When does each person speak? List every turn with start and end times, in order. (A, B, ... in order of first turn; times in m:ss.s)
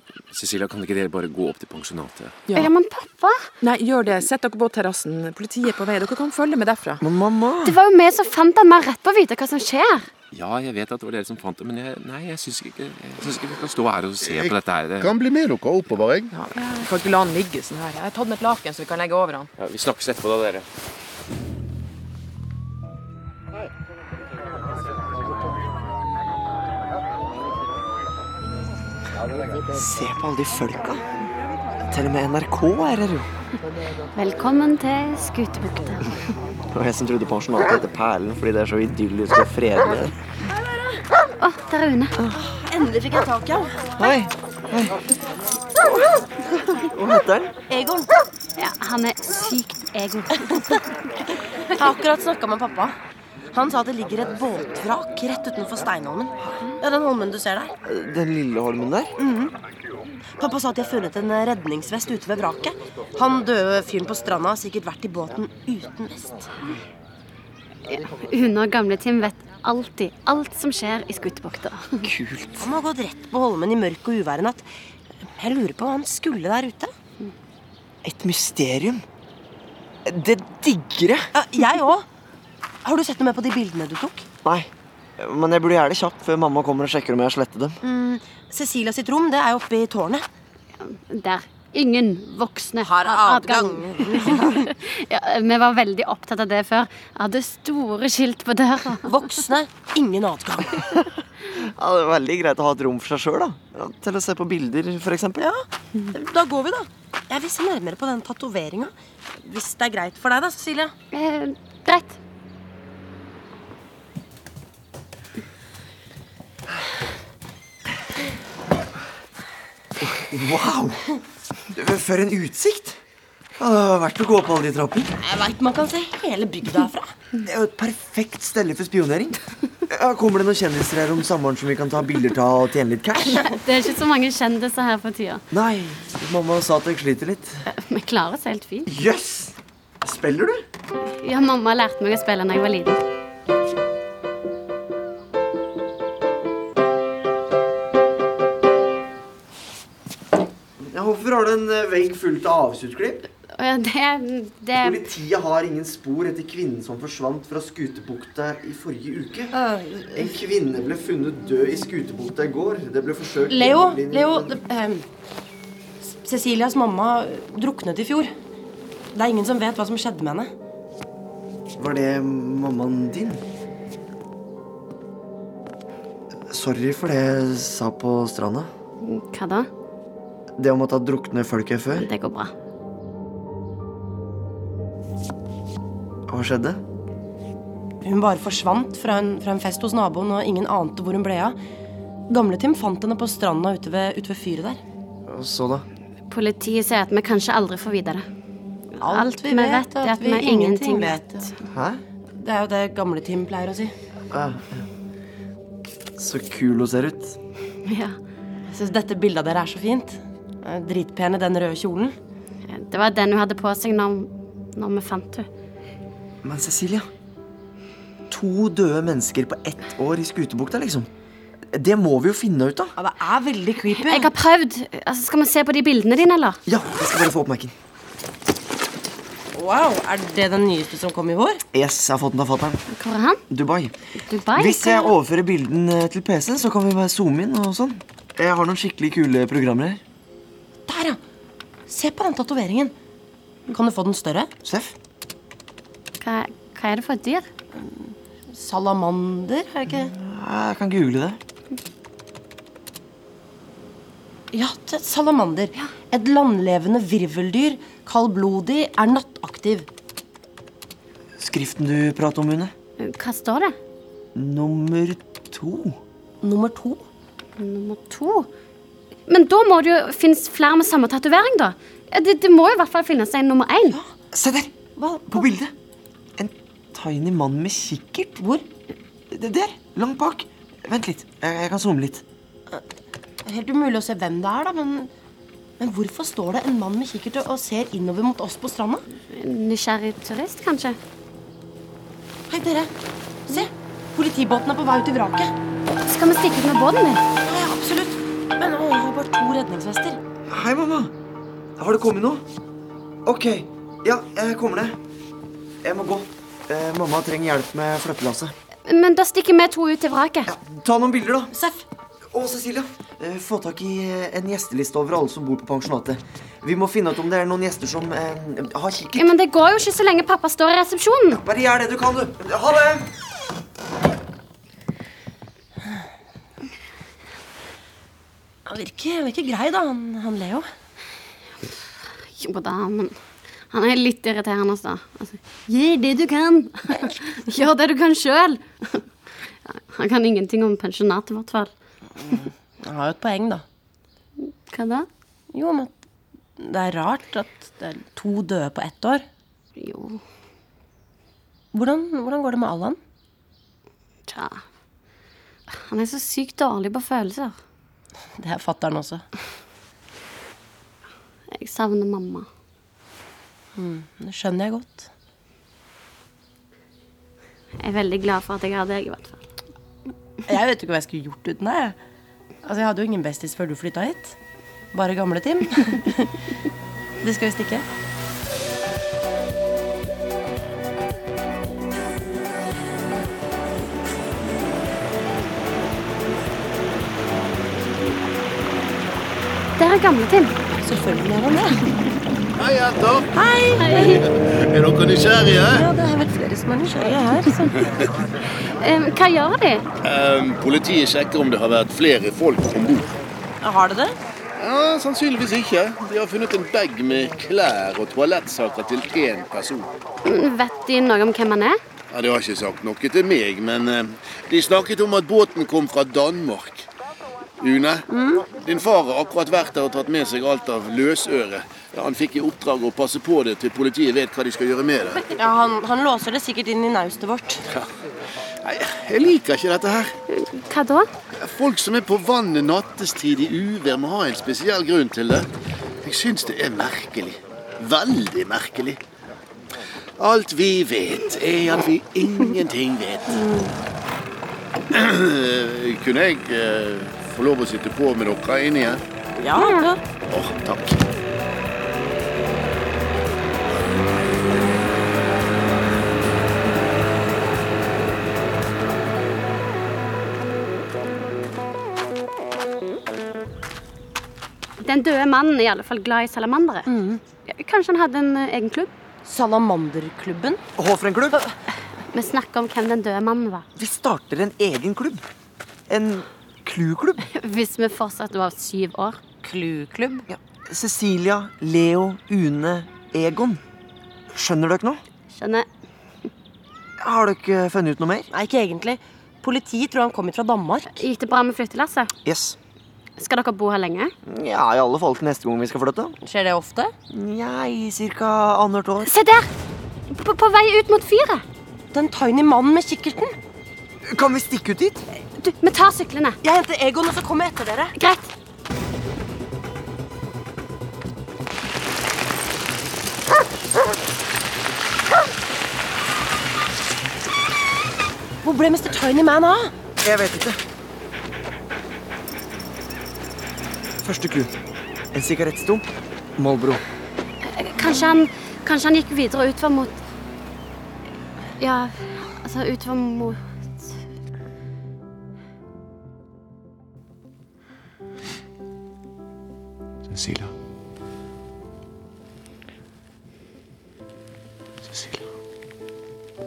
0:00.3-0:02.4 A
0:02.5-0:03.5 B
0:03.6-0:07.0 C
0:07.0-0:07.8 D
0:07.6-0:10.1 B
0:10.3-0:15.1 A
0:14.2-0:16.3 E
0:16.3-0:19.5 C
0:19.6-0:20.7 A
0:29.7-0:31.1 D
0:31.9-0:33.3 D
0:34.2-0:36.2 B
0:36.7-0:40.2 D
0:41.4-0:42.2 B
0:42.3-0:43.9 F
0:44.0-0:45.0 D
0:46.7-0:47.6 D
0:47.7-0:48.1 F
0:48.6-0:50.5 B
0:51.7-0:53.0 F
0:53.5-0:57.7 F
0:57.8-0:59.1 D
0:59.2-0:59.5 F
1:00.4-1:06.5 F
1:07.9-1:12.0 B
1:12.0-1:12.8 D
1:12.6-1:14.7 F
1:15.4-1:16.9 F
1:18.0-1:19.0 D
1:20.0-1:21.3 D
1:21.4-1:22.1 F
1:22.8-1:24.3 F
1:24.4-1:27.8 D
1:27.8-1:30.3 F
1:30.8-1:39.1 B
1:32.8-1:34.7 F
1:39.0-1:40.9 F
1:41.5-1:45.5 D
1:45.4-1:50.9 F
1:51.1-1:52.2 B
2:00.0-2:01.0 D
2:01.7-2:03.0 D
2:03.6-2:05.1 D
2:05.2-2:07.2 F
2:07.4-2:13.6 D
2:13.3-2:15.4 B
2:15.5-2:17.6 D
2:17.7-2:18.9 B
2:18.9-2:20.6 D
2:21.2-2:23.0 B
2:30.8-2:33.3 D
2:33.5-2:35.1 B
2:34.8-2:39.5 D
2:39.5-2:40.4 F
2:40.2-2:44.6 D
2:43.5-2:45.0 F
2:46.1-2:48.3 F
2:49.1-2:50.5 F
2:51.8-2:53.4 D
2:56.5-2:58.7 D
2:59.0-2:59.7 B
3:00.6-3:02.1 D
3:01.9-3:02.5 B
3:06.3-3:06.8 D
3:08.0-3:11.6 F
3:12.3-3:14.8 F
3:15.3-3:15.9 D
3:16.3-3:18.2 B
3:18.9-3:21.5 B
3:19.0-3:21.5 F
3:21.7-3:22.0 D
3:22.4-3:23.9 F
3:24.3-3:24.8 D
3:26.2-3:27.4 D
3:27.8-3:28.2 B
3:28.7-3:32.2 F
3:32.7-3:35.5 B
3:36.4-3:37.1 D
3:38.3-3:41.1 D
3:41.7-3:43.0 D
3:43.0-3:44.3 F
3:43.9-3:46.6 B
3:46.7-3:47.7 D
3:49.5-3:51.6 F
3:51.7-3:52.8 D
3:52.9-3:53.4 B
3:53.5-3:54.0 D
3:54.2-3:55.1 B
3:54.6-4:00.0 D
4:00.9-4:01.2 F
4:01.9-4:03.0 F
4:03.7-4:04.5 F
4:04.6-4:05.0 D
4:06.2-4:07.5 B
4:07.7-4:10.1 F
4:09.9-4:11.4 D
4:14.5-4:19.9 F
4:21.4-4:22.7 D
4:23.0-4:23.8 B
4:24.4-4:26.0 D
4:26.4-4:27.0 F
4:27.6-4:28.5 B
4:29.3-4:34.0 B
4:34.3-4:34.8 D
4:35.0-4:35.4 F
4:35.3-4:35.7 D
4:36.4-4:38.4 D
4:38.4-4:38.6 F
4:39.3-4:42.2 D
4:43.4-4:45.1 F
4:45.8-4:49.0 F
4:49.3-4:51.0 B
4:52.5-4:52.9 F
4:53.5-4:55.6 F
4:56.1-4:57.2 B
4:57.4-5:00.2 F
5:00.5-5:01.1 D
5:01.8-5:02.5 D
5:03.2-5:05.0 D
5:05.8-5:08.6 D
5:08.9-5:10.5 B
5:10.5-5:11.5 D
5:11.5-5:11.8 F
5:12.3-5:19.3 D
5:19.2-5:21.4 B
5:21.4-5:23.1 D
5:28.7-5:30.7 F
5:32.3-5:33.2 B
5:33.7-5:39.1 B
5:39.6-5:41.7 B
5:42.3-5:43.6 F
5:44.7-5:45.1 B
5:45.5-5:45.9 F
5:46.6-5:49.3 F
5:49.8-5:50.2 B
5:51.7-5:53.0 F
5:54.3-5:54.6 B
5:55.7-5:57.6 B
5:58.4-5:59.3 F
6:01.5-6:02.5 B
6:03.8-6:05.1 F
6:07.8-6:09.4 B
6:10.5-6:12.0 F
6:12.6-6:14.4 F
6:14.9-6:16.4 F
6:17.2-6:17.9 F
6:29.8-6:30.6 B
6:30.8-6:32.0 F
6:32.6-6:33.3 E
6:33.3-6:34.2 F
6:33.7-6:34.3 B
6:34.1-6:35.9 E
6:35.6-6:37.6 F
6:37.5-6:37.8 B
6:38.6-6:39.9 B
6:40.0-6:43.1 E
6:43.6-6:44.2 F
6:44.6-6:49.9 E
6:50.2-6:51.8 B
6:52.1-6:56.9 E
6:57.6-7:05.2 E
6:58.1-6:58.5 F
7:05.3-7:07.6 F
7:08.6-7:10.2 E
7:10.3-7:11.1 B
7:11.4-7:15.5 E
7:16.0-7:19.0 E
7:20.2-7:23.4 E
7:23.3-7:23.7 B
7:24.9-7:29.0 E
7:29.4-7:30.0 F
7:30.3-7:31.1 E
7:44.8-7:46.9 B
7:46.9-7:47.2 F
7:47.5-7:48.9 B
7:49.2-7:50.6 F
7:50.8-7:51.4 D
7:52.1-7:53.7 B
7:53.8-7:55.2 D
7:55.9-7:57.3 D
7:57.3-7:59.2 B
7:59.4-8:00.3 F
8:00.3-8:03.6 D
8:04.3-8:05.0 D
8:05.3-8:05.7 B
8:07.0-8:08.3 D
8:08.3-8:11.0 F
8:11.0-8:12.1 B
8:12.2-8:12.6 D
8:13.2-8:14.1 B
8:14.2-8:16.2 D
8:16.2-8:16.9 F
8:17.1-8:19.1 D
8:19.0-8:19.5 B
8:20.1-8:21.4 B
8:21.9-8:23.4 F
8:24.1-8:25.0 D
8:25.4-8:26.4 B
8:26.4-8:27.9 F
8:28.0-8:28.3 B
8:38.4-8:39.7 F
8:40.0-8:40.6 D
8:44.0-8:44.5 D
8:45.1-8:45.9 D
8:46.4-8:46.8 D
8:47.4-8:50.0 B
8:51.6-8:53.9 B
9:00.1-9:00.5 A
9:04.8-9:05.3 A